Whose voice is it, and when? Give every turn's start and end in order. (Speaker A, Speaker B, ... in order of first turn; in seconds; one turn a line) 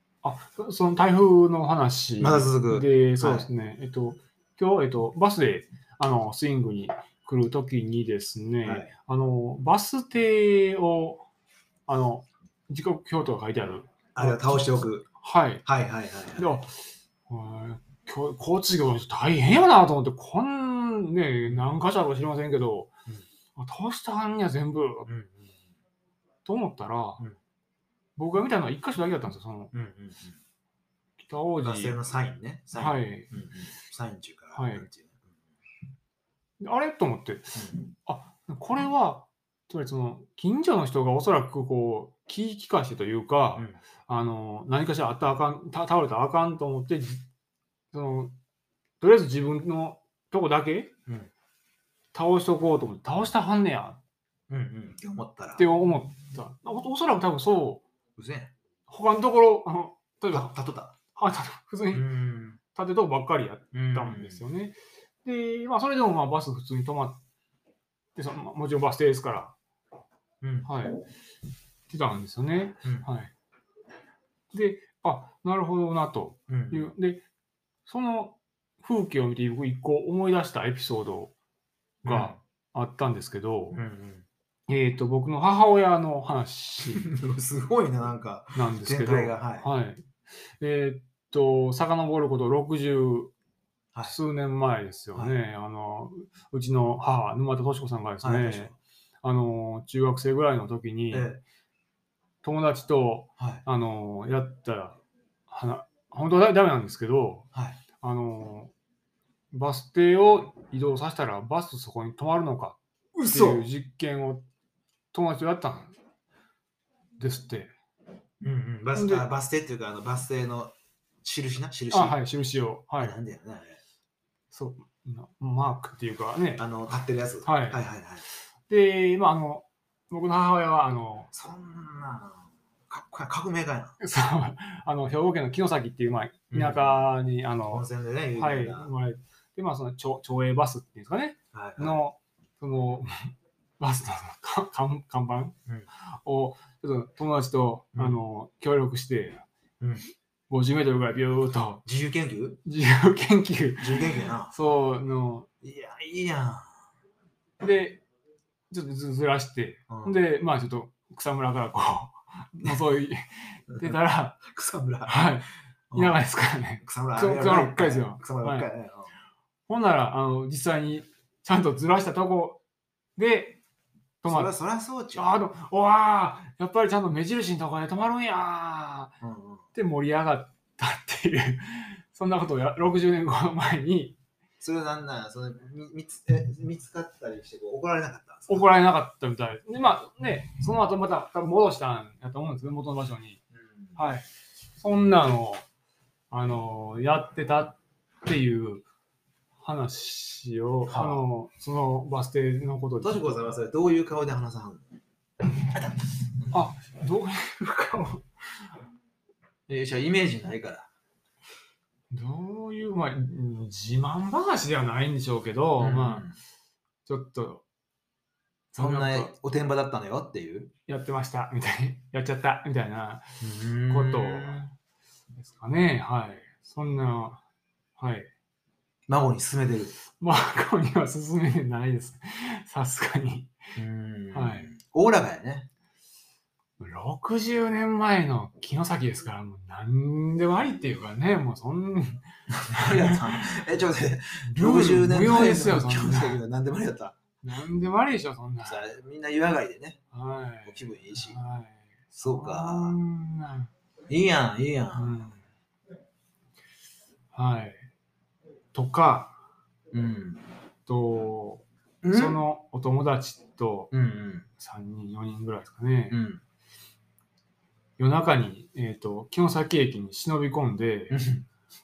Speaker A: 0.2-11.2
Speaker B: 2.2-3.5
Speaker B: 8.6-8.9
Speaker A: 11.9-15.7
Speaker B: 14.1-15.1
Speaker B: 15.7-16.5
Speaker A: 16.4-22.9
Speaker A: 23.6-25.1
Speaker B: 25.1-25.5
Speaker A: 26.4-27.2
Speaker A: 28.2-29.7
Speaker B: 29.7-30.4
Speaker A: 31.2-32.0
Speaker B: 31.6-35.2
Speaker A: 32.7-33.3
Speaker A: 34.5-34.9
Speaker A: 36.6-47.2
Speaker A: 47.9-48.4
Speaker A: 49.0-50.9
Speaker A: 52.1-54.0
Speaker B: 54.5-55.6
Speaker A: 55.6-57.8
Speaker B: 58.1-58.5
Speaker A: 58.9-60.5
Speaker B: 60.3-60.9
Speaker A: 61.1-62.1
Speaker B: 61.9-62.6
Speaker A: 62.7-67.2
Speaker B: 63.7-64.4
Speaker A: 68.1-69.5
Speaker B: 70.4-70.7
Speaker A: 70.6-71.0
Speaker A: 71.9-73.3
Speaker B: 72.8-73.1
Speaker A: 74.5-77.2
Speaker B: 76.5-76.9
Speaker A: 77.8-81.3
Speaker B: 82.0-82.4
Speaker A: 82.0-83.8
Speaker B: 83.7-84.2
Speaker A: 84.7-87.1
Speaker B: 87.0-89.7
Speaker A: 88.5-90.1
Speaker A: 90.6-93.3
Speaker A: 94.0-101.3
Speaker B: 98.2-98.7
Speaker B: 101.1-101.4
Speaker A: 102.4-107.5
Speaker B: 103.4-103.6
Speaker B: 107.5-107.8
Speaker A: 108.0-108.7
Speaker A: 109.5-114.4
Speaker B: 113.2-113.7
Speaker A: 115.1-116.0
Speaker A: 117.2-117.7
Speaker B: 118.4-122.2
Speaker A: 118.9-119.2
Speaker A: 121.9-123.2
Speaker B: 123.0-123.8
Speaker A: 124.5-126.7
Speaker B: 126.6-128.2
Speaker A: 127.4-127.8
Speaker A: 128.7-131.3
Speaker B: 131.3-134.0
Speaker A: 134.0-137.8
Speaker B: 136.5-137.0
Speaker B: 137.7-138.9
Speaker A: 138.4-145.5
Speaker B: 141.5-142.0
Speaker A: 146.2-149.4
Speaker A: 150.5-151.8
Speaker B: 151.8-152.6
Speaker A: 152.6-155.5
Speaker B: 153.8-154.5
Speaker B: 155.6-156.8
Speaker A: 157.6-158.0
Speaker A: 158.7-164.4
Speaker B: 159.9-160.2
Speaker B: 163.8-165.3
Speaker A: 165.1-168.7
Speaker B: 165.9-166.2
Speaker B: 166.8-169.1
Speaker A: 169.7-172.6
Speaker A: 173.2-173.6
Speaker A: 174.2-174.5
Speaker B: 174.2-175.4
Speaker A: 175.1-179.1
Speaker B: 179.2-179.7
Speaker A: 179.7-184.2
Speaker B: 184.6-188.7
Speaker A: 188.5-193.4
Speaker B: 193.5-194.0
Speaker A: 193.9-195.6
Speaker A: 196.3-198.8
Speaker A: 199.6-203.3
Speaker B: 200.9-201.2
Speaker B: 203.0-204.9
Speaker B: 205.7-206.6
Speaker A: 206.5-208.7
Speaker B: 209.7-210.9
Speaker A: 212.1-216.3
Speaker B: 215.8-216.4
Speaker A: 217.1-217.6
Speaker A: 218.7-219.3
Speaker B: 218.8-220.7
Speaker A: 220.9-223.3
Speaker B: 223.4-224.7
Speaker A: 223.9-224.7
Speaker A: 225.4-227.4
Speaker A: 228.0-228.3
Speaker B: 229.1-229.9
Speaker A: 230.1-233.5
Speaker B: 233.8-235.7
Speaker A: 234.3-234.7
Speaker A: 236.8-243.6
Speaker B: 242.5-247.2
Speaker A: 244.5-246.4
Speaker A: 247.4-248.8
Speaker B: 248.7-250.0
Speaker A: 250.1-253.7
Speaker B: 250.7-251.4
Speaker B: 252.2-252.9
Speaker B: 254.1-255.2
Speaker A: 254.9-255.4
Speaker A: 257.3-257.9
Speaker A: 258.7-259.4
Speaker B: 259.9-260.5
Speaker A: 260.9-263.9
Speaker B: 262.0-262.4
Speaker B: 263.9-264.5
Speaker A: 264.6-266.2
Speaker B: 266.1-266.4
Speaker A: 268.0-271.2
Speaker B: 271.1-271.4